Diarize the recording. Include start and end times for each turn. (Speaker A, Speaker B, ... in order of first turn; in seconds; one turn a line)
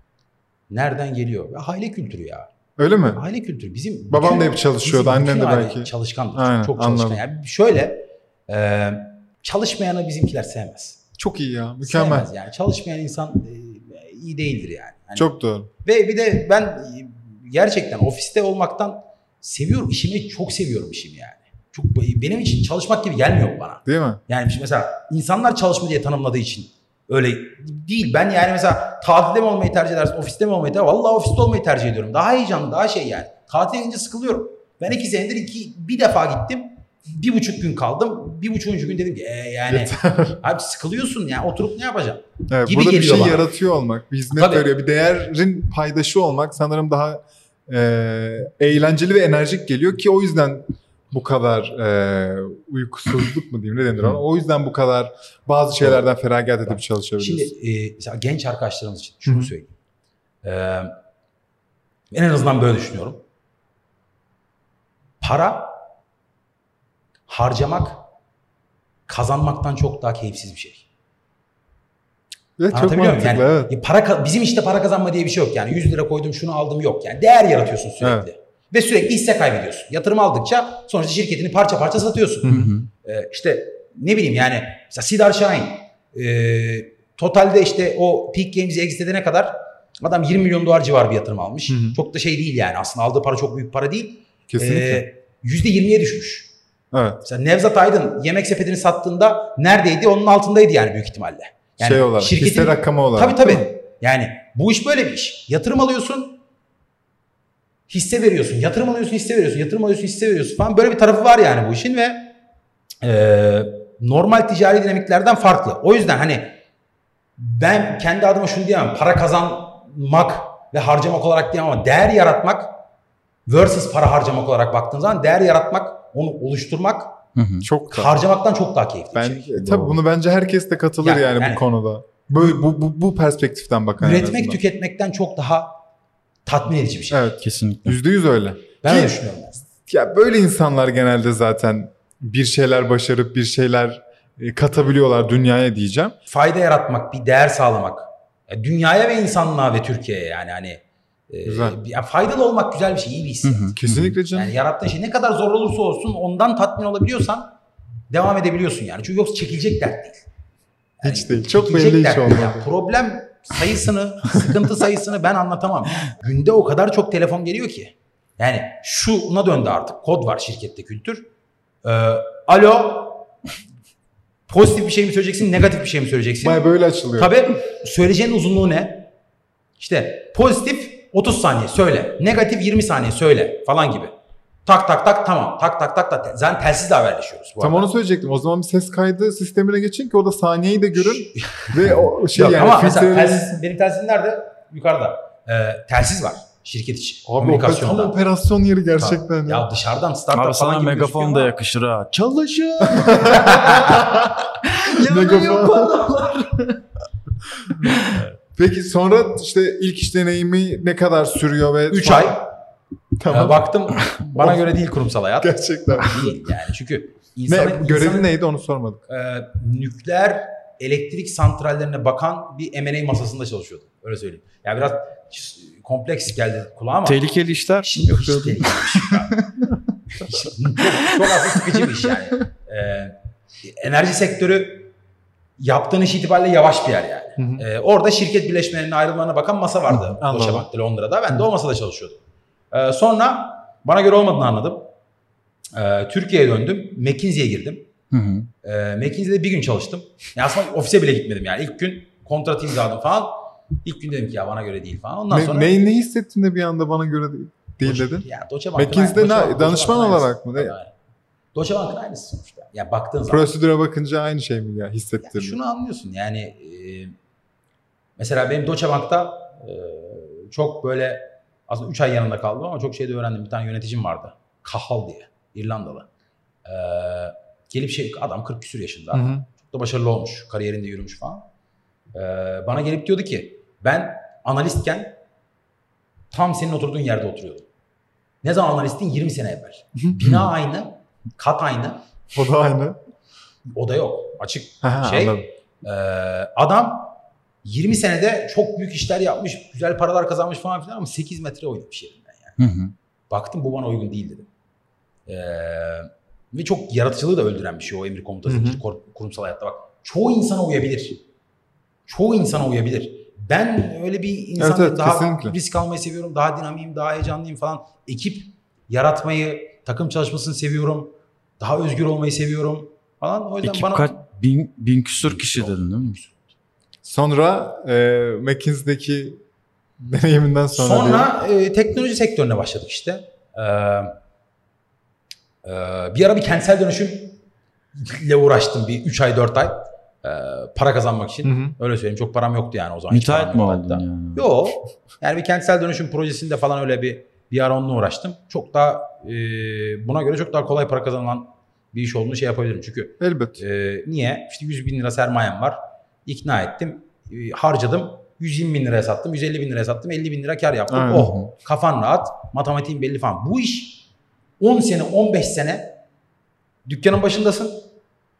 Speaker A: 0.7-2.5
Speaker B: 2.8-3.2
Speaker A: 3.1-11.0
Speaker B: 4.1-7.2
Speaker B: 11.2-12.3
Speaker A: 11.8-43.5
Speaker B: 15.1-15.7
Speaker B: 23.9-24.2
Speaker B: 39.7-40.4
Speaker B: 42.5-57.5
Speaker A: 44.3-44.7
Speaker A: 56.7-59.7
Speaker B: 59.3-59.5
Speaker A: 60.4-60.9
Speaker A: 62.1-63.2
Speaker A: 65.2-65.7
Speaker A: 67.3-68.0
Speaker A: 69.1-70.8
Speaker B: 72.6-73.7
Speaker A: 72.7-96.5
Speaker B: 78.0-78.3
Speaker B: 82.4-82.7
Speaker C: 82.4-82.9
Speaker B: 91.7-92.0
Speaker B: 94.5-95.0
Speaker B: 96.9-97.2
Speaker A: 97.2-106.4
Speaker B: 101.8-103.7
Speaker A: 107.9-112.3
Speaker A: 113.0-116.5
Speaker A: 117.4-122.7
Speaker A: 123.5-127.2
Speaker C: 127.3-127.7
Speaker B: 127.6-128.1
Speaker A: 127.9-129.6
Speaker B: 129.1-134.6
Speaker C: 129.6-130.0
Speaker A: 131.0-131.6
Speaker A: 134.0-135.8
Speaker A: 136.4-137.4
Speaker B: 137.1-139.1
Speaker C: 137.4-137.9
Speaker A: 138.8-139.6
Speaker B: 139.8-146.2
Speaker A: 146.3-153.8
Speaker B: 151.4-151.8
Speaker C: 153.4-154.1
Speaker B: 153.8-154.5
Speaker A: 154.3-157.5
Speaker A: 158.1-160.2
Speaker B: 161.0-162.7
Speaker A: 161.0-171.3
Speaker A: 171.8-173.3
Speaker A: 174.5-176.6
Speaker B: 176.4-177.3
Speaker A: 177.2-179.1
Speaker A: 179.8-184.1
Speaker A: 184.7-187.9
Speaker B: 187.6-193.6
Speaker A: 190.9-198.2
Speaker B: 197.2-199.7
Speaker A: 199.0-201.5
Speaker C: 200.3-206.8
Speaker B: 202.9-204.4
Speaker A: 203.2-204.1
Speaker B: 204.9-206.2
Speaker B: 207.6-207.9
Speaker C: 207.7-208.2
Speaker B: 208.5-212.4
Speaker A: 211.9-212.5
Speaker B: 213.2-214.7
Speaker A: 213.3-218.3
Speaker B: 215.4-216.4
Speaker B: 217.5-219.0
Speaker A: 219.1-227.2
Speaker C: 227.0-232.1
Speaker A: 227.8-229.4
Speaker A: 230.2-234.9
Speaker A: 235.6-242.2
Speaker B: 237.4-237.6
Speaker B: 240.1-240.7
Speaker A: 242.7-244.9
Speaker A: 245.7-247.9
Speaker C: 248.1-248.5
Speaker A: 248.6-255.7
Speaker B: 255.3-260.7
Speaker A: 257.8-260.9
Speaker A: 261.5-263.5
Speaker B: 263.3-265.6
Speaker A: 265.2-267.1
Speaker A: 268.2-276.1
Speaker A: 276.6-281.5
Speaker B: 279.1-279.4
Speaker A: 282.1-285.1
Speaker A: 286.3-287.7
Speaker A: 288.4-292.0
Speaker B: 292.3-293.0
Speaker A: 293.7-302.6
Speaker B: 294.8-295.4
Speaker C: 302.6-302.9
Speaker A: 303.3-304.5
Speaker A: 305.3-311.2
Speaker B: 308.5-308.8
Speaker A: 312.1-324.1
Speaker B: 314.6-315.6
Speaker C: 323.6-326.2
Speaker A: 325.3-326.3
Speaker B: 327.0-329.4
Speaker B: 330.0-331.3
Speaker A: 330.7-334.1
Speaker A: 335.6-337.4
Speaker A: 337.9-364.1
Speaker B: 341.4-341.7
Speaker C: 343.1-344.5
Speaker B: 353.2-353.6
Speaker B: 360.9-361.3
Speaker A: 364.6-366.0
Speaker A: 366.9-367.8